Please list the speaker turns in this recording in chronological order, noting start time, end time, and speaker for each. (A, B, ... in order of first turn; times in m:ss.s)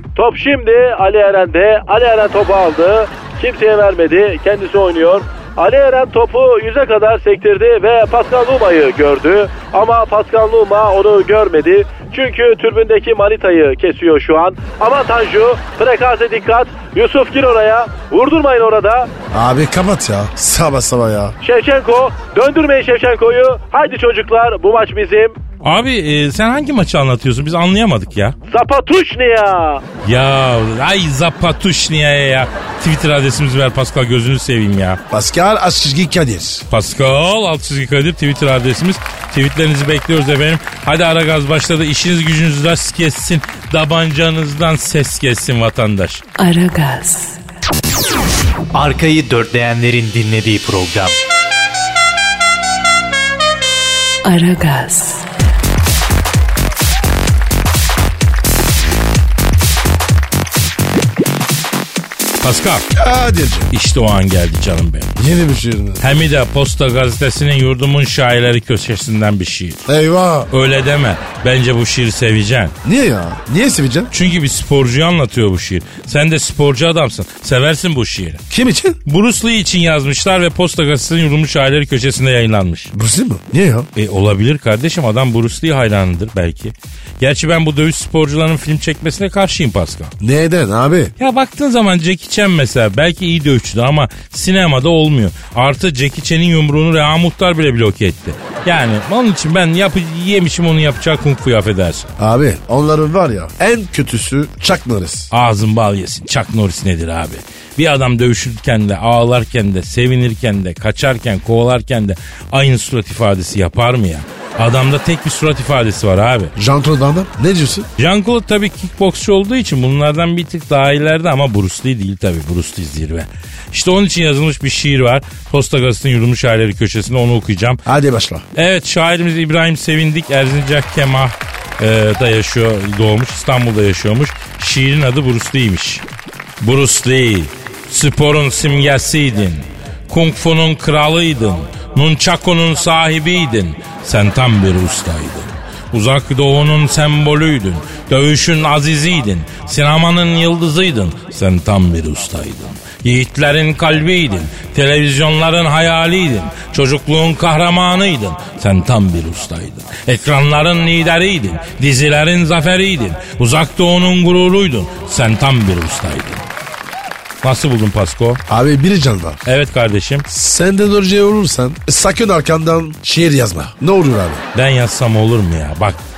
0:00.2-0:19.1 A
0:19.3-0:21.3 B
0:21.4-0:25.4 A
0:25.6-0:28.3 C
0:28.5-0:29.8 A
0:30.0-0:35.0 C
0:35.1-0:36.6 B
0:36.7-0:46.2 C
0:46.4-0:47.4 D
0:48.7-0:51.1 E
0:54.2-0:55.3 D
1:02.4-1:02.8 C
1:02.9-1:03.7 B
1:03.7-1:05.1 C
1:05.2-1:06.0 B
1:06.0-1:09.8 C
1:09.9-1:10.5 B
1:10.5-1:12.7 C
1:12.8-1:14.1 B
1:14.1-1:18.4 C
1:18.5-1:19.0 B
1:19.0-1:22.9 C
1:22.9-1:23.9 B
1:23.9-1:30.1 C
1:30.2-1:31.1 B
1:31.2-1:42.1 C
1:42.2-1:45.3 B
1:45.3-1:56.5 C
1:56.6-1:57.9 B
1:58.0-2:07.8 C
2:07.9-2:08.4 B
2:08.5-2:16.0 C
2:16.6-2:46.4 C
2:47.4-2:48.4 C
2:48.5-2:49.4 B
2:49.4-2:50.2 C
2:50.3-2:54.4 B
2:54.5-2:56.0 C